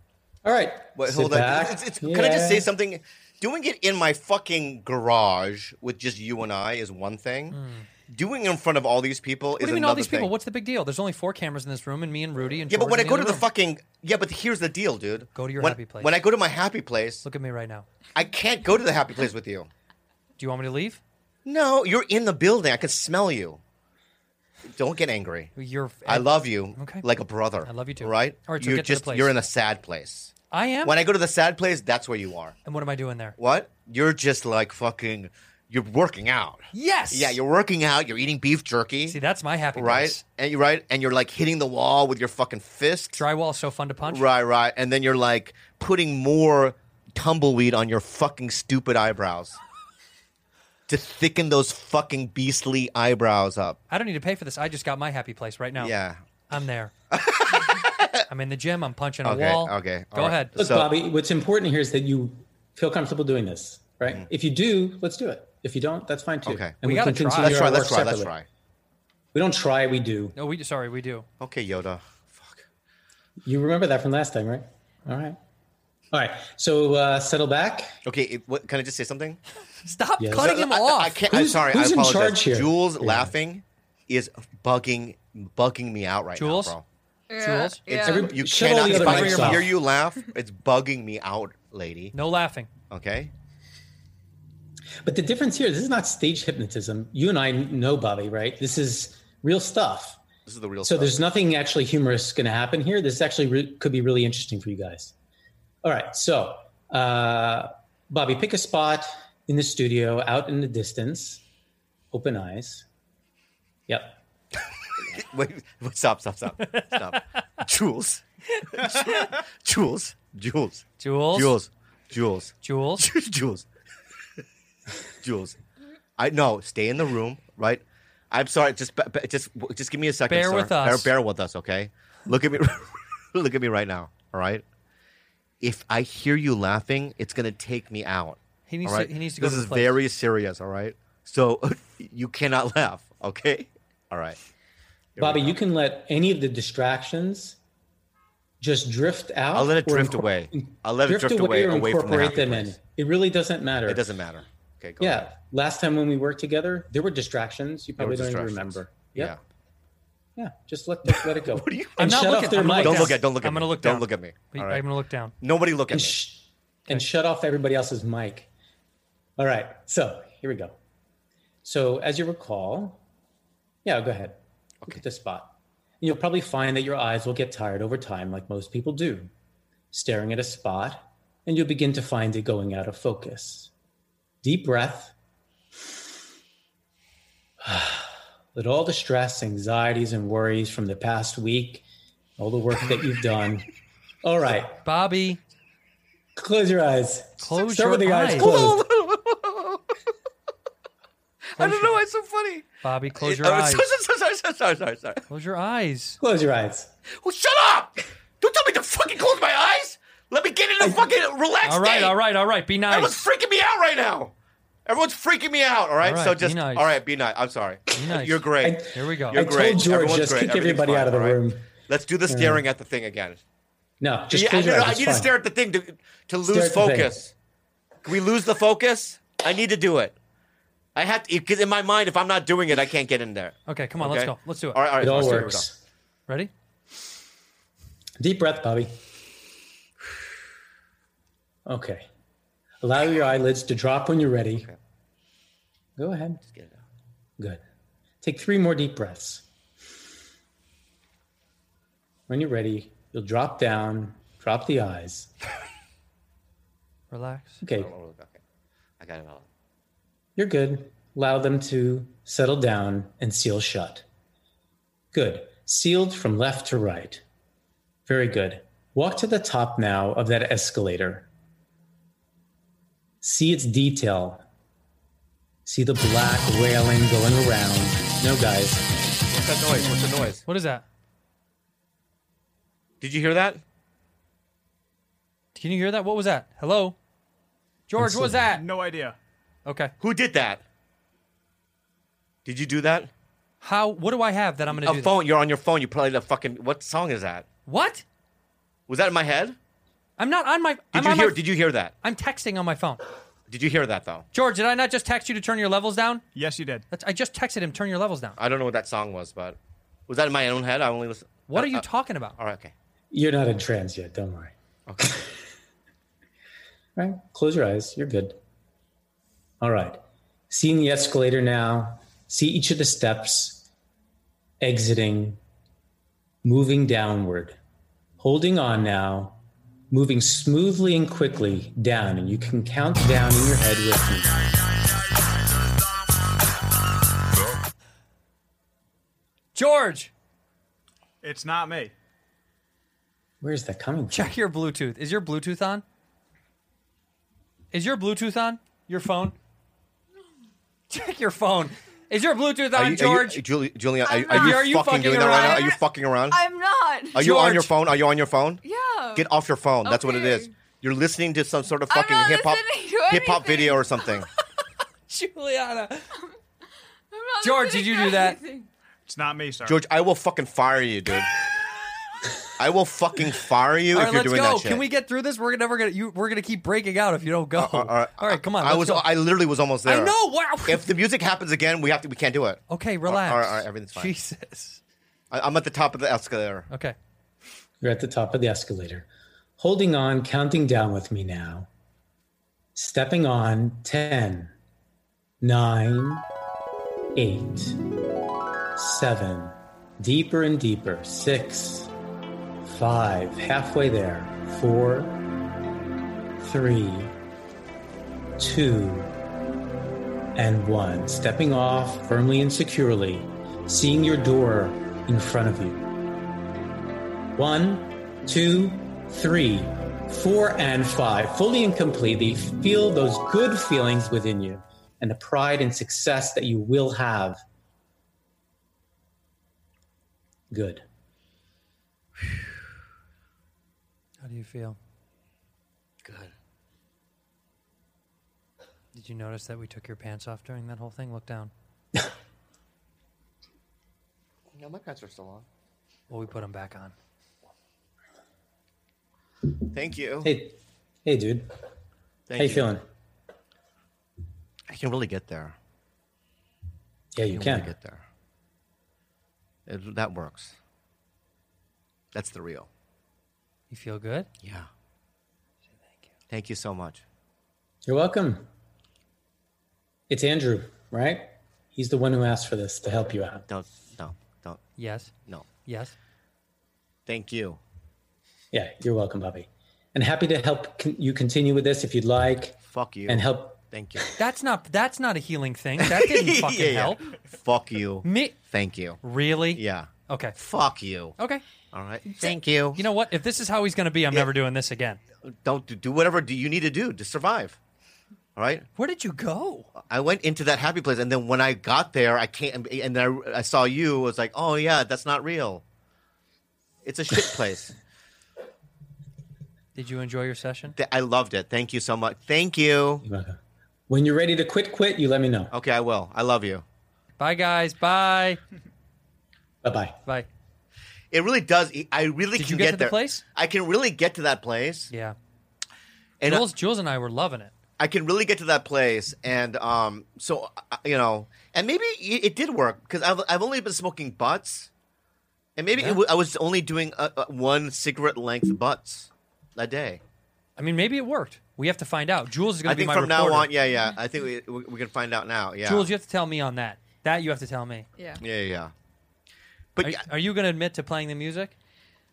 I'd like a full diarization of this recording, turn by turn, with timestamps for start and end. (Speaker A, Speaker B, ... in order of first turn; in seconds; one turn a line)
Speaker A: 0.4-2.7
Speaker B: 1.0-10.3
Speaker C: 7.5-7.9
Speaker C: 9.6-13.5
Speaker B: 12.7-17.2
Speaker C: 15.3-16.1
Speaker C: 17.2-17.9
Speaker B: 18.1-19.7
Speaker C: 20.4-21.0
Speaker B: 21.4-23.6
Speaker B: 24.7-25.5
Speaker C: 25.6-27.1
Speaker B: 26.1-30.3
Speaker C: 27.6-29.3
Speaker C: 30.5-31.0
Speaker B: 30.8-32.6
Speaker C: 32.6-33.4
Speaker B: 33.4-39.2
Speaker C: 36.7-37.4
Speaker C: 39.1-40.2
Speaker B: 39.8-43.2
Speaker C: 43.1-44.3
Speaker B: 44.1-49.6
Speaker B: 50.9-53.8
Speaker C: 53.9-55.9
Speaker B: 55.8-56.2
Speaker C: 56.5-56.9
Speaker B: 57.1-58.3
Speaker C: 58.3-60.5
Speaker B: 59.2-61.0
Speaker A: 60.6-68.3
Speaker B: 66.5-66.8
Speaker C: 66.8-67.7
Speaker B: 67.4-68.5
Speaker A: 69.3-70.4
Speaker C: 70.4-71.3
Speaker B: 71.4-72.7
Speaker A: 73.4-75.4
Speaker A: 76.1-77.9
Speaker B: 78.0-79.4
Speaker C: 79.8-81.2
Speaker A: 80.2-80.5
Speaker B: 80.3-86.8
Speaker A: 81.3-83.3
Speaker C: 86.4-86.8
Speaker D: 87.3-88.4
Speaker C: 87.4-87.8
Speaker B: 87.9-92.1
Speaker A: 88.0-89.7
Speaker C: 88.7-89.7
Speaker C: 92.1-92.7
Speaker B: 92.9-93.3
Speaker A: 95.0-100.2
Speaker B: 100.5-101.2
Speaker A: 100.8-105.1
Speaker A: 105.8-111.4
Speaker A: 112.1-112.8
Speaker A: 113.9-114.2
Speaker B: 115.0-123.7
Speaker C: 116.6-117.2
Speaker C: 118.7-119.2
Speaker C: 121.0-121.6
Speaker C: 122.6-123.1
Speaker B: 125.2-125.6
Speaker B: 126.2-134.6
Speaker C: 130.3-131.1
Speaker B: 135.6-144.4
Speaker C: 138.7-139.9
Speaker B: 145.2-145.6
Speaker A: 145.2-147.6
Speaker A: 148.6-154.0
Speaker B: 149.5-152.8
Speaker B: 153.8-155.3
Speaker A: 155.0-159.4
Speaker B: 158.0-159.4
Speaker A: 160.4-163.2
Speaker B: 161.1-164.9
Speaker C: 162.0-165.3
Speaker B: 165.4-166.2
Speaker A: 165.9-168.5
Speaker A: 169.4-170.8
Speaker A: 171.6-173.0
Speaker A: 173.8-179.3
Speaker A: 179.9-183.7
Speaker A: 184.4-185.1
Speaker A: 187.6-191.8
Speaker A: 192.4-193.7
Speaker A: 194.2-194.8
Speaker C: 194.8-195.4
Speaker A: 196.4-198.8
Speaker C: 197.4-198.6
Speaker B: 198.3-199.9
Speaker B: 201.6-205.2
Speaker C: 201.6-202.1
Speaker C: 202.8-203.9
Speaker C: 205.3-206.2
Speaker A: 206.2-206.9
Speaker B: 207.1-212.2
Speaker C: 211.6-213.2
Speaker B: 212.9-214.3
Speaker B: 214.9-223.4
Speaker C: 216.0-217.0
Speaker C: 217.9-219.4
Speaker A: 218.6-221.7
Speaker A: 222.3-222.6
Speaker A: 224.0-225.3
Speaker B: 224.3-227.3
Speaker A: 226.5-227.1
Speaker B: 228.0-230.2
Speaker B: 230.9-235.7
Speaker C: 233.7-234.9
Speaker A: 235.0-235.8
Speaker A: 238.2-239.0
Speaker A: 241.7-242.1
Speaker A: 242.8-244.7
Speaker A: 246.0-246.4
Speaker B: 246.4-246.8
Speaker A: 248.2-249.4
Speaker A: 252.3-255.3
Speaker C: 257.1-257.6
Speaker A: 257.6-257.9
Speaker B: 257.7-258.4
Speaker B: 259.0-259.5
Speaker A: 260.4-264.1
Speaker A: 265.1-267.2
Speaker A: 268.1-271.3
Speaker A: 273.2-274.4
Speaker A: 275.7-278.9
Speaker B: 279.3-280.4
Speaker C: 280.5-280.9
Speaker B: 283.0-283.6
Speaker C: 285.6-287.0
Speaker C: 287.9-288.6
Speaker A: 288.0-288.4
Speaker E: 288.5-289.2
Speaker C: 289.7-289.9
Speaker B: 290.0-290.6
Speaker B: 292.4-293.1
Speaker C: 293.6-295.1
Speaker B: 294.7-297.5
Speaker C: 297.7-298.0
Speaker B: 298.9-299.6
Speaker C: 300.2-301.4
Speaker B: 300.9-301.9
Speaker C: 302.0-303.0
Speaker B: 303.5-304.3
Speaker C: 304.3-306.2
Speaker E: 306.4-306.8
Speaker C: 306.9-308.4
Speaker B: 308.4-311.9
Speaker C: 311.5-312.4
Speaker B: 312.4-312.7
Speaker A: 313.1-314.5
Speaker B: 314.9-315.2
Speaker A: 317.0-318.4
Speaker A: 319.6-323.7
Speaker A: 324.6-325.4
Speaker A: 326.4-327.6
Speaker A: 328.2-329.4
Speaker A: 329.9-334.3
Speaker C: 339.6-340.1
Speaker E: 341.2-341.9
Speaker A: 343.4-344.3
Speaker C: 344.1-345.8
Speaker C: 347.7-349.4
Speaker C: 350.9-353.4
Speaker B: 352.7-356.4
Speaker D: 354.1-357.2
Speaker C: 354.3-355.7
Speaker B: 357.1-358.6
Speaker C: 357.2-357.7
Speaker D: 358.6-359.3
Speaker B: 359.1-364.3
Speaker D: 359.8-360.5
Speaker D: 361.9-364.1
Speaker C: 365.1-366.1
Speaker D: 367.1-368.7
Speaker C: 367.4-368.4
Speaker E: 369.1-369.8
Speaker B: 369.6-371.3
Speaker B: 372.6-374.9
Speaker C: 373.9-379.1
Speaker B: 377.6-384.1
Speaker C: 379.9-380.9
Speaker C: 382.7-384.8
Speaker B: 385.3-386.7
Speaker A: 387.8-389.1
Speaker A: 389.6-391.7
Speaker A: 392.8-394.5
Speaker A: 395.4-396.2
Speaker A: 397.2-397.8
Speaker A: 398.8-401.9
Speaker A: 402.6-405.2
Speaker A: 406.4-407.1
Speaker A: 408.4-409.1
Speaker A: 410.4-415.8
Speaker A: 417.4-427.4
Speaker A: 430.5-430.8
Speaker C: 434.2-434.8
Speaker B: 436.0-436.3
Speaker C: 438.9-441.5
Speaker B: 444.5-445.5
Speaker C: 446.1-446.9
Speaker B: 449.7-450.4
Speaker A: 450.2-451.5
Speaker B: 452.3-452.7
Speaker A: 452.4-452.8
Speaker B: 454.7-455.6
Speaker A: 457.1-457.7
Speaker B: 457.2-458.0
Speaker B: 459.7-460.6
Speaker B: 462.1-462.7
Speaker C: 463.7-464.3
Speaker B: 464.4-464.7
Speaker B: 466.3-467.0
Speaker A: 467.9-468.5
Speaker A: 470.1-473.5
Speaker B: 473.5-474.6
Speaker C: 474.8-475.1
Speaker C: 475.7-475.9
Speaker B: 477.1-477.6
Speaker A: 478.5-483.6
Speaker B: 482.7-484.1
Speaker C: 484.2-487.0
Speaker B: 485.8-489.0
Speaker C: 488.0-488.4
Speaker C: 489.0-490.4
Speaker B: 489.5-491.2
Speaker C: 491.2-491.4
Speaker B: 491.7-492.9
Speaker C: 492.1-495.0
Speaker B: 495.2-497.6
Speaker B: 498.4-498.7
Speaker C: 498.8-499.7
Speaker B: 499.8-505.6
Speaker B: 506.8-507.7
Speaker C: 509.8-510.8
Speaker B: 510.8-513.0
Speaker A: 513.0-513.4
Speaker A: 513.9-515.5
Speaker B: 515.5-516.6
Speaker C: 517.2-518.4
Speaker A: 519.6-520.0
Speaker B: 521.1-524.9
Speaker C: 522.4-523.2
Speaker C: 524.9-525.2
Speaker B: 526.2-526.5
Speaker C: 526.2-527.5
Speaker B: 527.8-534.7
Speaker B: 535.6-540.0
Speaker C: 535.8-536.0
Speaker C: 540.6-543.5
Speaker B: 542.6-545.9
Speaker C: 545.6-547.9
Speaker B: 548.2-548.7
Speaker B: 549.8-550.1
Speaker C: 549.8-551.5